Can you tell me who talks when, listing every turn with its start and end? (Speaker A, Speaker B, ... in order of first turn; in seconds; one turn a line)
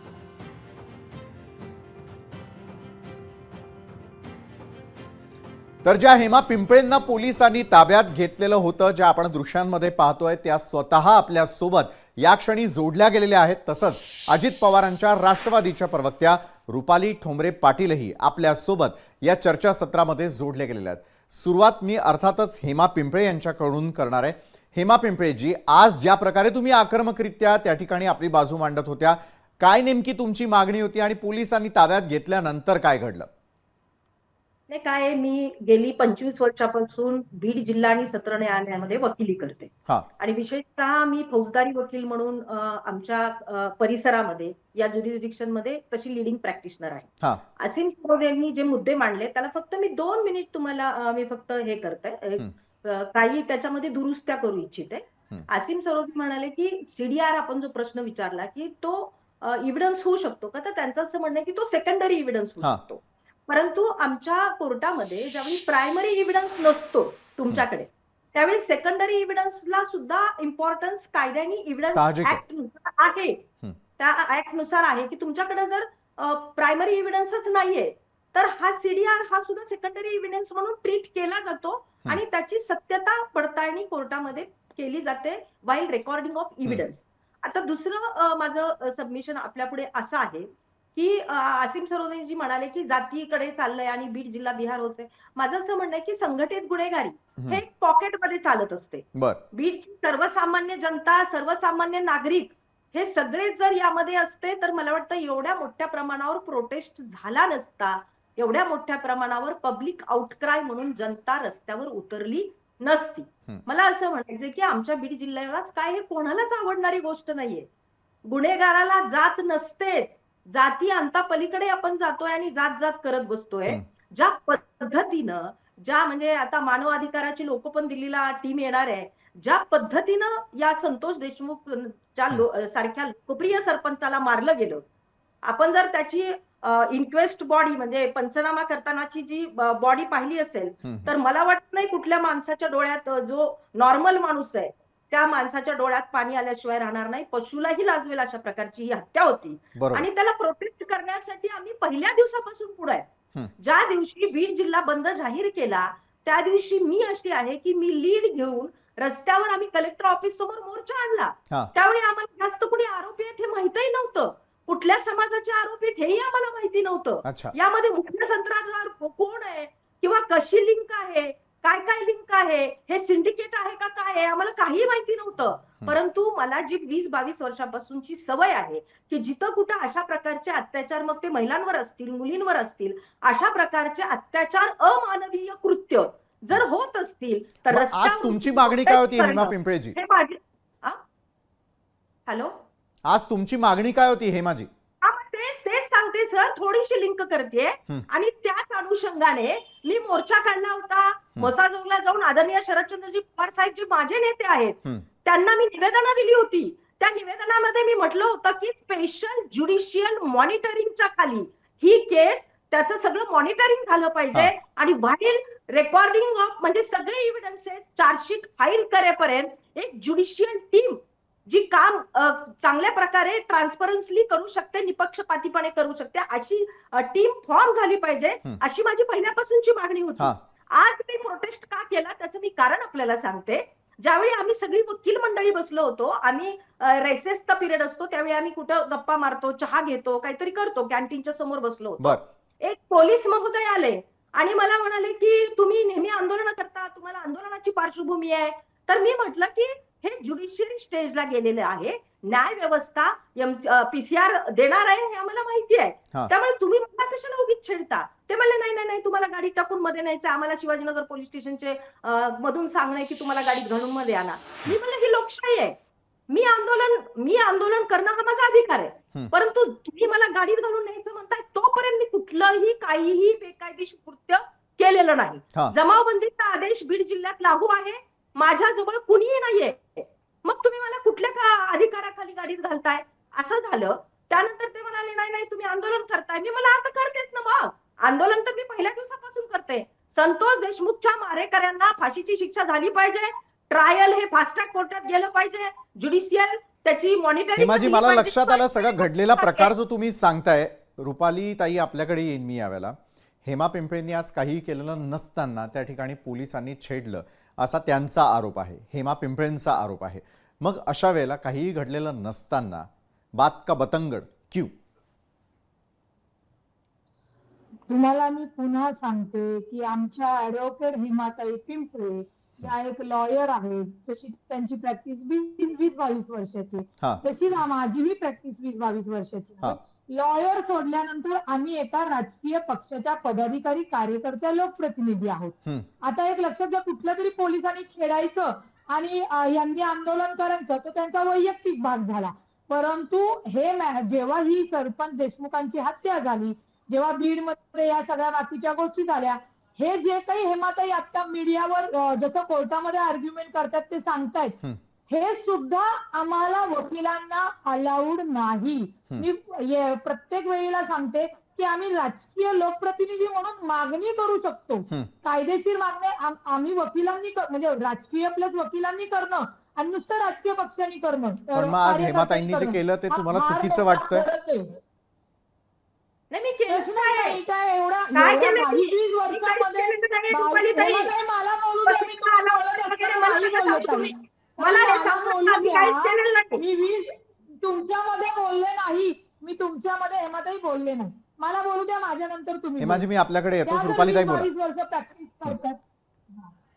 Speaker A: 5.8-33.3
Speaker B: 34.7-73.4
Speaker A: 71.9-72.4
Speaker B: 74.0-117.7
Speaker A: 99.2-99.4
Speaker B: 118.2-134.8
Speaker B: 135.4-153.1
Speaker A: 140.8-141.1
Speaker A: 149.8-150.1
Speaker B: 153.6-191.0
Speaker A: 167.2-167.5
Speaker A: 187.7-189.9
Speaker B: 192.3-192.5
Speaker A: 193.1-194.7
Speaker B: 195.0-265.8
Speaker B: 266.3-299.7
Speaker A: 297.6-314.7
Speaker C: 317.9-374.7
Speaker A: 371.5-374.2
Speaker B: 376.3-377.4
Speaker C: 376.7-393.1
Speaker B: 378.1-381.1
Speaker B: 381.9-386.6
Speaker A: 392.8-394.5
Speaker C: 393.6-395.8